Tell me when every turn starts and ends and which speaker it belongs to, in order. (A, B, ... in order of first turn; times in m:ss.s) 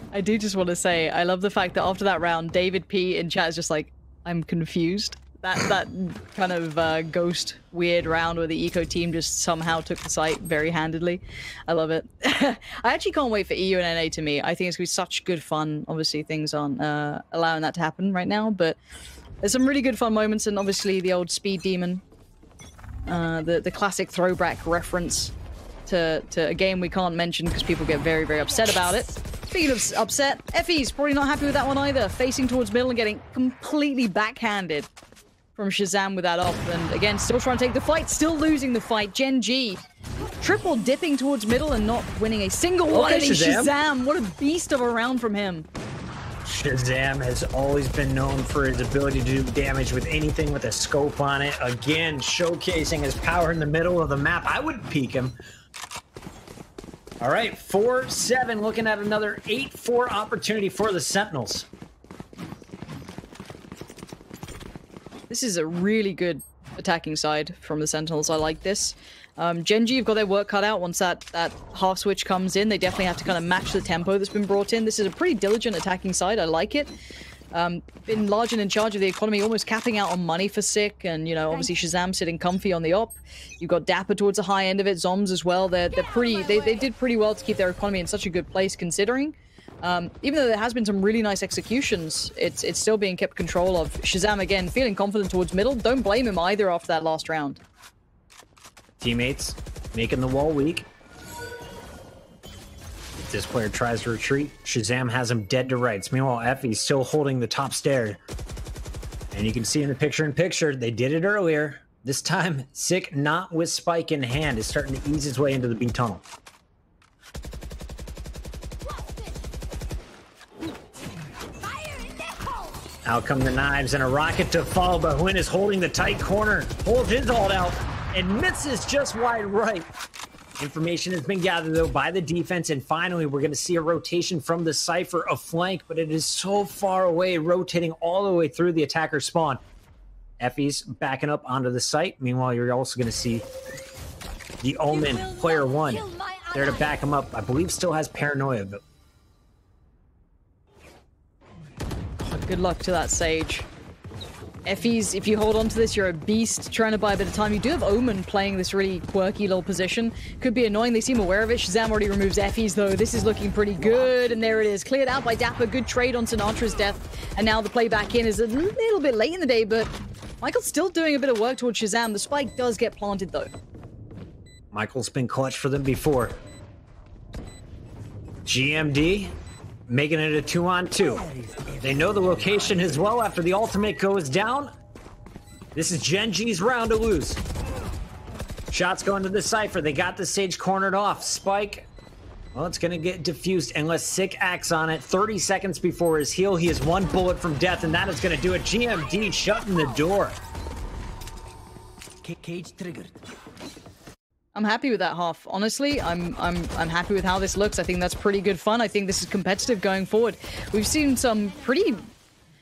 0:00.1-0:18.8 A
0:19.4-0:22.0 A
0:23.1-0:25.3 A
0:25.8-0:34.9 A
0:35.6-0:39.8 A
0:40.4-0:45.7 A
0:42.9-0:43.7 B
0:46.4-0:55.4 B
0:57.2-1:01.7 B
1:05.3-1:16.9 A
1:17.5-1:37.6 A
1:39.0-1:40.9 B
1:43.2-1:48.2 B
1:49.3-1:56.2 B
2:03.0-2:09.9 B
2:10.6-2:19.6 B
2:20.4-2:23.4 B
2:24.6-2:28.8 B
2:32.2-2:33.7 A
2:34.6-2:53.5 A
2:54.7-2:56.4 B
2:58.4-2:59.3 B
2:59.9-3:01.3 B
3:01.0-3:03.0 C
3:01.8-3:04.7 B
3:05.7-3:07.4 B
3:08.7-3:11.9 B
3:12.5-3:20.4 B
3:22.2-3:23.2 C
3:24.5-3:32.1 A